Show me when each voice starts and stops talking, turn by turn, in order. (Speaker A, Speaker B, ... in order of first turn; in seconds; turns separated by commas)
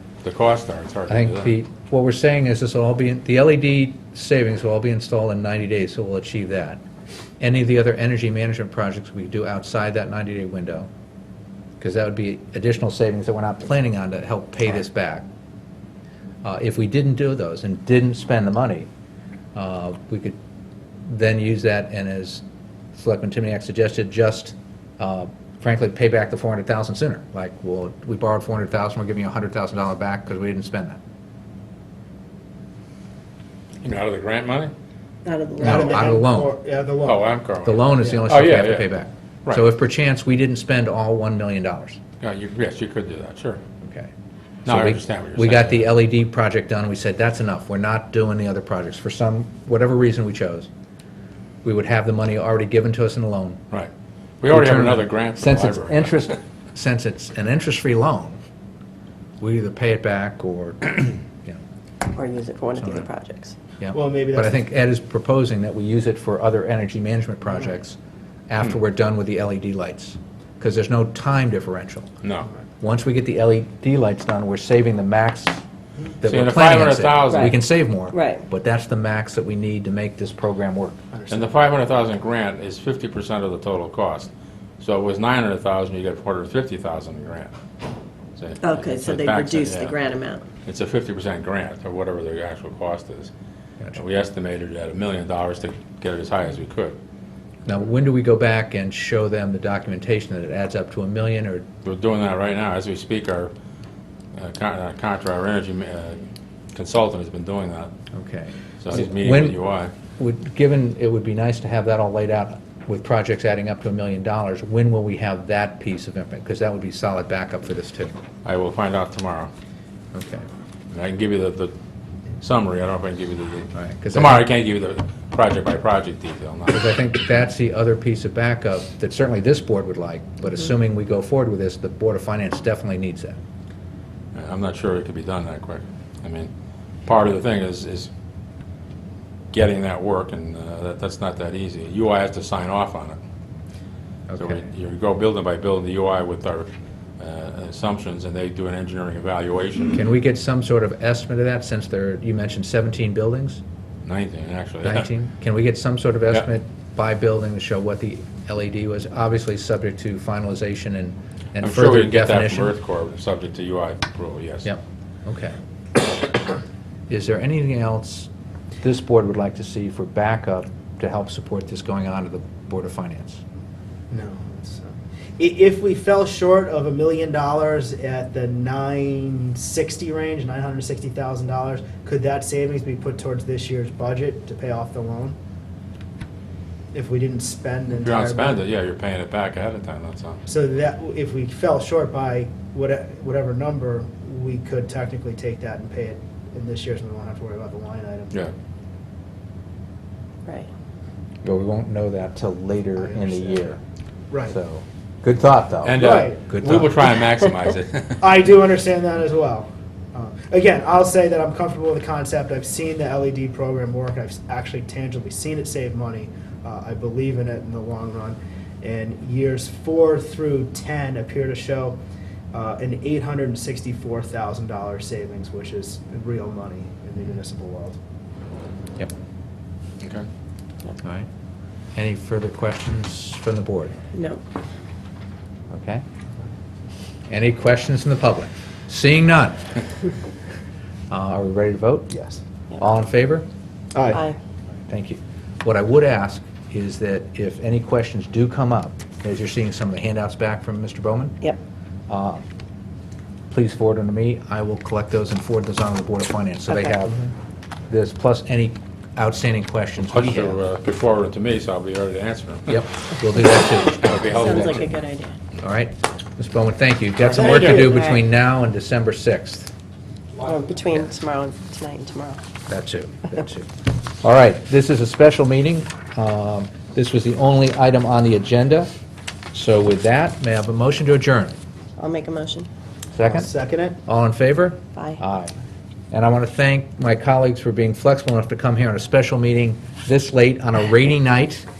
Speaker A: 0.2-1.5, Speaker B: 1.1-6.8, Speaker B: 7.4-10.9, Speaker B: 11.8-15.3, Speaker B: 16.4-18.9, Speaker B: 19.6-20.4, Speaker B: 21.1-22.4, Speaker B: 22.9-31.0, Speaker A: 33.8-34.7, Speaker C: 35.2-36.0, Speaker B: 35.6-36.5, Speaker D: 35.6-37.4, Speaker A: 37.0-38.9, Speaker B: 37.6-42.0, Speaker A: 42.2-43.6, Speaker B: 43.8-44.1, Speaker B: 44.6-50.7, Speaker A: 44.7-46.0, Speaker B: 51.6-53.6, Speaker A: 54.4-56.3, Speaker B: 54.5-58.4, Speaker B: 59.4-61.6, Speaker C: 62.1-63.5, Speaker B: 62.8-63.1, Speaker B: 63.8-68.0, Speaker D: 63.9-64.6, Speaker B: 68.5-72.1, Speaker A: 72.2-72.5, Speaker B: 72.8-75.6, Speaker B: 76.2-81.0, Speaker A: 76.2-77.6, Speaker C: 77.3-77.6, Speaker C: 78.1-78.4, Speaker D: 81.1-81.5, Speaker A: 81.3-84.3, Speaker A: 84.8-87.5, Speaker A: 88.4-90.0, Speaker C: 88.6-90.5, Speaker A: 90.6-93.3, Speaker A: 93.9-97.0, Speaker B: 97.7-101.7, Speaker A: 101.8-103.5, Speaker A: 104.3-106.2, Speaker A: 106.7-107.9, Speaker B: 108.1-109.6, Speaker A: 108.8-109.9, Speaker B: 110.2-118.2, Speaker A: 118.4-119.5, Speaker B: 120.1-120.5, Speaker A: 120.9-121.7, Speaker A: 122.4-127.0, Speaker B: 123.7-124.5, Speaker B: 126.7-133.4, Speaker A: 134.3-136.5, Speaker A: 137.1-138.1, Speaker A: 139.5-143.2, Speaker B: 144.3-144.6, Speaker A: 144.4-150.0, Speaker B: 149.9-153.6, Speaker A: 154.0-155.1, Speaker B: 154.8-162.7, Speaker A: 161.6-164.7, Speaker B: 164.6-165.6, Speaker B: 167.1-168.3, Speaker B: 168.8-173.4, Speaker D: 174.1-185.4, Speaker D: 186.9-188.6, Speaker A: 187.9-190.4, Speaker D: 190.4-198.3, Speaker B: 201.4-203.8, Speaker D: 203.0-203.8, Speaker D: 204.3-204.6, Speaker B: 204.5-207.0, Speaker A: 205.8-208.3, Speaker D: 205.9-206.4, Speaker D: 208.2-222.0, Speaker D: 222.5-228.0, Speaker A: 230.0-230.3, Speaker B: 231.0-231.3, Speaker B: 231.9-233.9, Speaker C: 234.1-234.4, Speaker B: 235.7-236.0, Speaker B: 237.3-239.8, Speaker B: 241.1-242.1, Speaker D: 242.1-242.4, Speaker B: 242.8-243.5, Speaker D: 243.9-244.2, Speaker C: 244.1-244.4, Speaker B: 244.9-251.4, Speaker B: 252.1-252.4, Speaker B: 253.5-257.2, Speaker B: 257.9-260.6, Speaker A: 260.1-262.9, Speaker B: 262.7-264.4, Speaker A: 264.0-264.9, Speaker C: 264.2-265.4, Speaker B: 265.6-269.7, Speaker C: 267.3-268.2, Speaker A: 267.4-267.8, Speaker C: 270.4-272.4, Speaker B: 272.7-273.7, Speaker B: 274.2-278.9, Speaker B: 279.5-281.6, Speaker C: 282.0-282.7, Speaker B: 283.1-283.5, Speaker D: 283.2-284.0, Speaker B: 284.1-285.5, Speaker B: 286.1-291.7